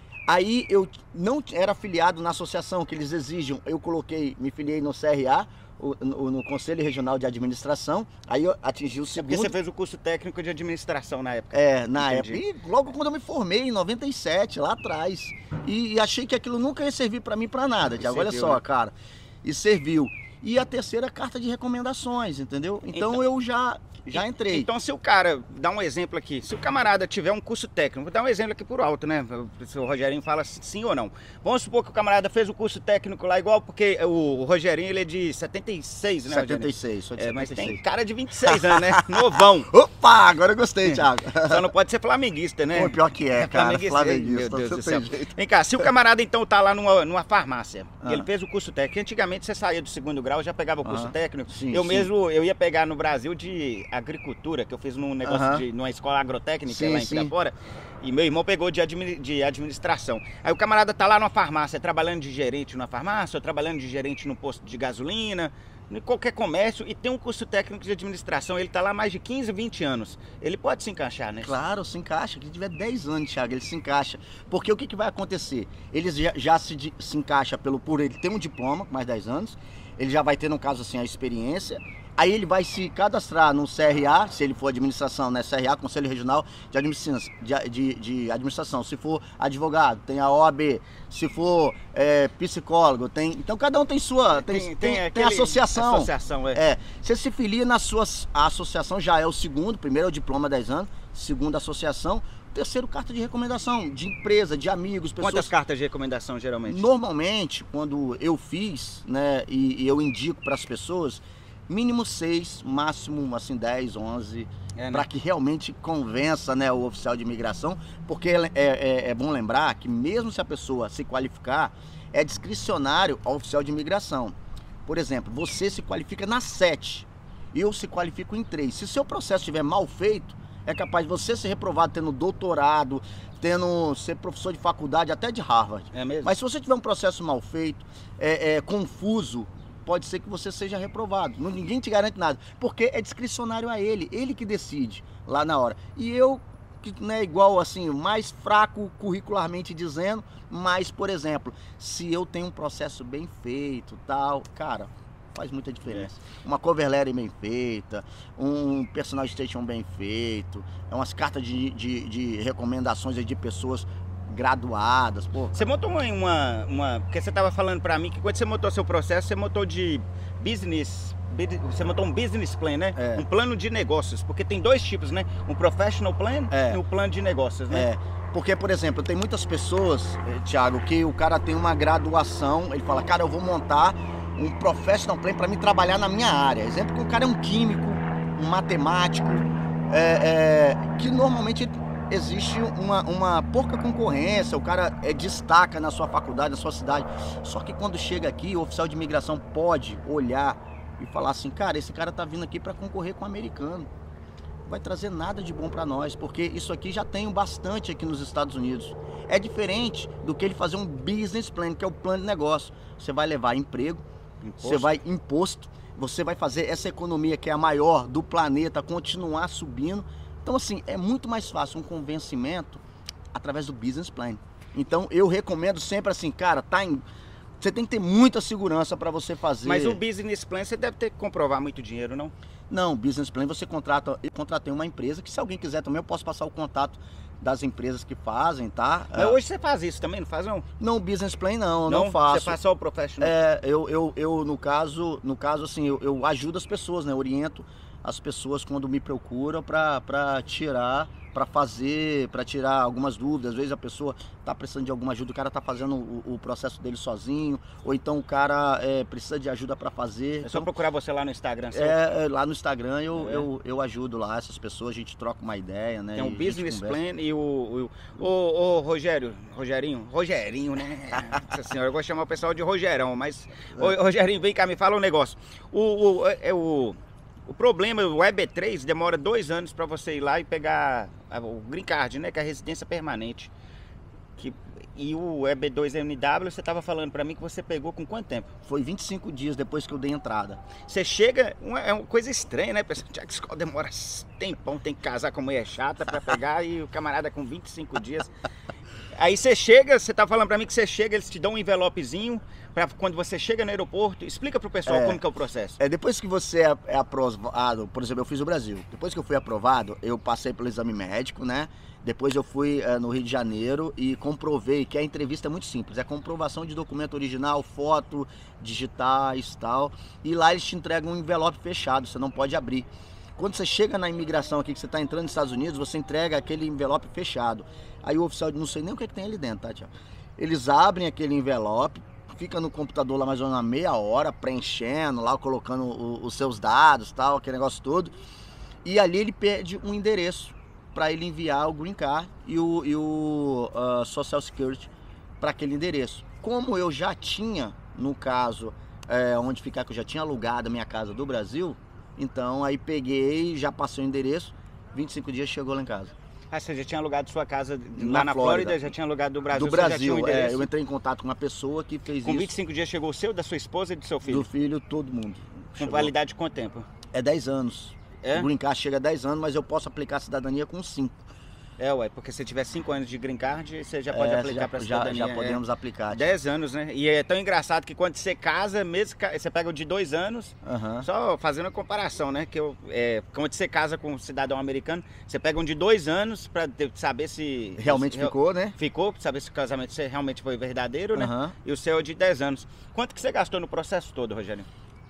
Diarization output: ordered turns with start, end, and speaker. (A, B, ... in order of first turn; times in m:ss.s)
0:00.3-0:09.5 A
0:09.1-0:12.4 B
0:11.5-0:24.7 A
0:18.0-0:18.6 B
0:22.9-0:23.2 B
0:24.1-0:39.7 B
0:36.3-0:37.8 A
0:38.4-0:41.7 A
0:40.8-1:11.6 B
0:42.7-0:45.3 A
0:48.0-0:48.3 A
0:50.8-0:52.1 A
0:55.2-0:55.6 A
0:56.7-0:57.3 A
1:11.4-1:45.5 A
1:34.3-1:36.6 B
1:45.2-1:46.9 B
1:46.7-2:04.4 A
1:54.8-1:55.1 B
2:04.9-2:45.6 A
2:15.9-2:16.3 B
2:45.5-2:57.9 B
2:53.0-2:53.2 A
2:56.5-2:56.8 A
2:57.7-3:23.9 A
3:24.7-3:34.0 A
3:34.4-3:35.0 B
3:34.6-3:42.8 A
3:43.3-3:47.0 A
3:47.6-3:50.0 A
3:49.6-3:52.3 B
3:52.7-3:59.4 A
3:59.1-4:00.7 B
4:00.8-4:02.6 A
4:01.9-4:03.3 B
4:03.2-4:20.7 A
4:20.4-4:22.0 B
4:21.7-4:27.0 A
4:23.2-4:23.5 B
4:26.2-4:37.0 B
4:37.5-4:43.5 B
4:44.4-4:48.5 B
4:48.6-4:50.6 A
4:50.9-4:58.3 B
4:59.2-5:05.8 B
5:04.9-5:05.2 A
5:05.8-5:38.1 A
5:38.8-5:44.9 A
5:45.4-5:56.1 A
5:56.5-6:00.7 B
5:58.0-5:58.9 A
5:59.5-6:02.5 A
6:02.2-6:04.5 B
6:04.3-6:06.1 A
6:05.8-6:06.9 B
6:07.1-6:11.1 A
6:08.2-6:08.5 B
6:11.8-6:34.7 B
6:14.1-6:16.3 A
6:20.6-6:21.1 A
6:27.8-6:28.8 A
6:31.2-6:31.5 A